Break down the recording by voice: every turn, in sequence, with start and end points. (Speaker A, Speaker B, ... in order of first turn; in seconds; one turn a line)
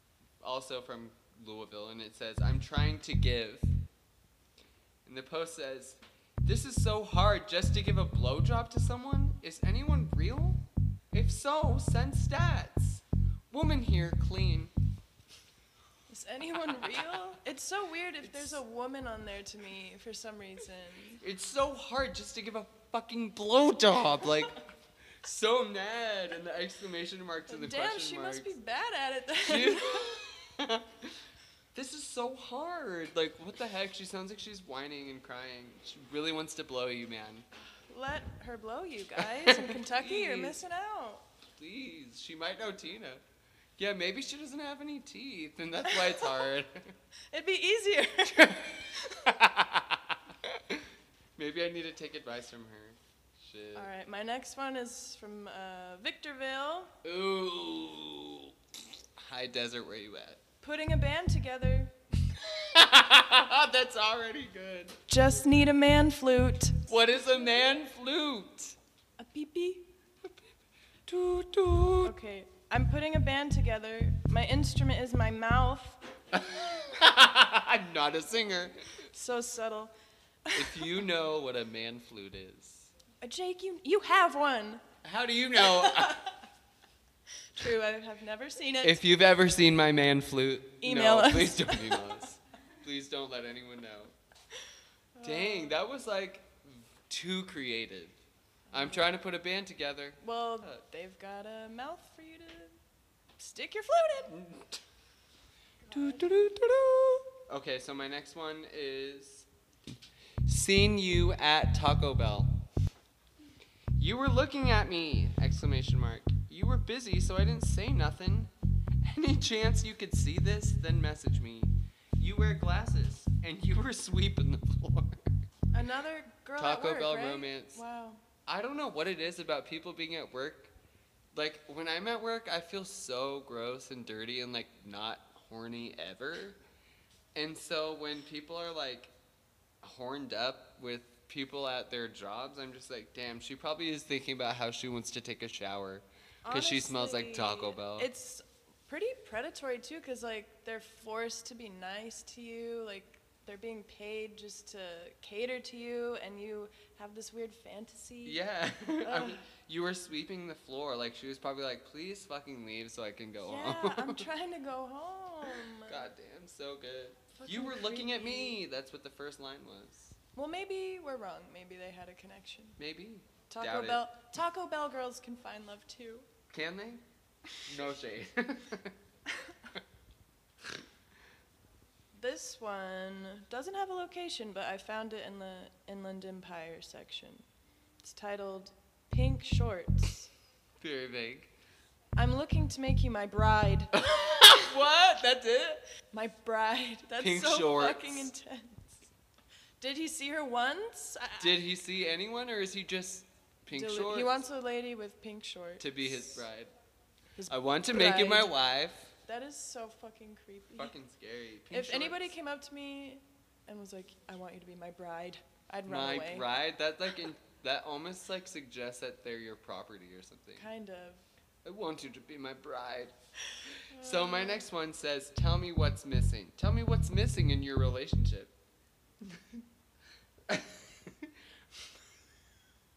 Speaker A: 0.4-3.8
Speaker A: 5.0-14.7
Speaker B: 16.1-21.2
Speaker A: 16.7-17.2
Speaker A: 18.2-18.6
Speaker A: 21.2-24.6
Speaker A: 25.2-28.5
Speaker B: 27.5-30.2
Speaker A: 29.4-31.2
Speaker A: 31.7-37.5
Speaker B: 37.9-41.2
Speaker A: 39.2-40.6
Speaker A: 41.6-43.2
Speaker A: 43.8-46.9
Speaker B: 47.3-49.3
Speaker A: 48.2-53.9
Speaker B: 53.7-56.9
Speaker A: 57.0-58.5
Speaker A: 59.1-60.4
Speaker B: 60.6-61.9
Speaker A: 62.4-65.0
Speaker B: 65.1-67.6
Speaker A: 66.9-68.8
Speaker B: 69.2-69.9
Speaker A: 71.1-72.1
Speaker B: 72.0-76.0
Speaker A: 76.3-78.8
Speaker B: 79.1-79.9
Speaker B: 80.5-80.9
Speaker A: 80.5-82.9
Speaker B: 83.2-84.8
Speaker A: 85.0-86.3
Speaker B: 85.6-86.2
Speaker B: 87.5-89.0
Speaker A: 88.8-94.1
Speaker B: 90.8-92.2
Speaker B: 95.2-95.8
Speaker A: 95.2-98.2
Speaker B: 98.7-99.0
Speaker A: 98.7-100.8
Speaker B: 100.2-102.7
Speaker B: 103.4-104.4
Speaker A: 104.3-104.8
Speaker A: 105.9-109.5
Speaker B: 105.9-106.2
Speaker A: 110.4-112.5
Speaker A: 114.0-118.5
Speaker A: 119.0-125.3
Speaker B: 125.7-128.2
Speaker A: 126.6-127.8
Speaker A: 128.4-130.7
Speaker A: 131.3-136.6
Speaker A: 137.3-139.1
Speaker A: 139.8-148.1
Speaker B: 146.4-158.4
Speaker A: 158.2-164.3
Speaker B: 159.0-159.4
Speaker B: 163.4-166.1
Speaker A: 165.4-170.2
Speaker B: 167.3-168.6
Speaker B: 170.3-172.8
Speaker A: 172.8-174.0
Speaker B: 173.5-176.3
Speaker A: 176.5-177.0
Speaker A: 177.6-178.9
Speaker B: 182.1-187.4
Speaker B: 188.0-190.3
Speaker A: 190.8-191.5
Speaker B: 192.2-194.7
Speaker A: 194.0-195.8
Speaker B: 196.1-199.1
Speaker A: 197.2-198.3
Speaker B: 199.8-201.6
Speaker A: 201.4-204.4
Speaker B: 203.7-206.4
Speaker A: 205.8-206.7
Speaker B: 207.3-208.5
Speaker A: 207.5-209.1
Speaker B: 209.2-210.9
Speaker A: 210.8-212.3
Speaker B: 211.7-216.4
Speaker A: 215.9-220.7
Speaker B: 220.6-221.2
Speaker A: 221.6-223.1
Speaker A: 223.6-228.5
Speaker B: 223.9-224.7
Speaker A: 229.2-229.6
Speaker A: 230.5-231.8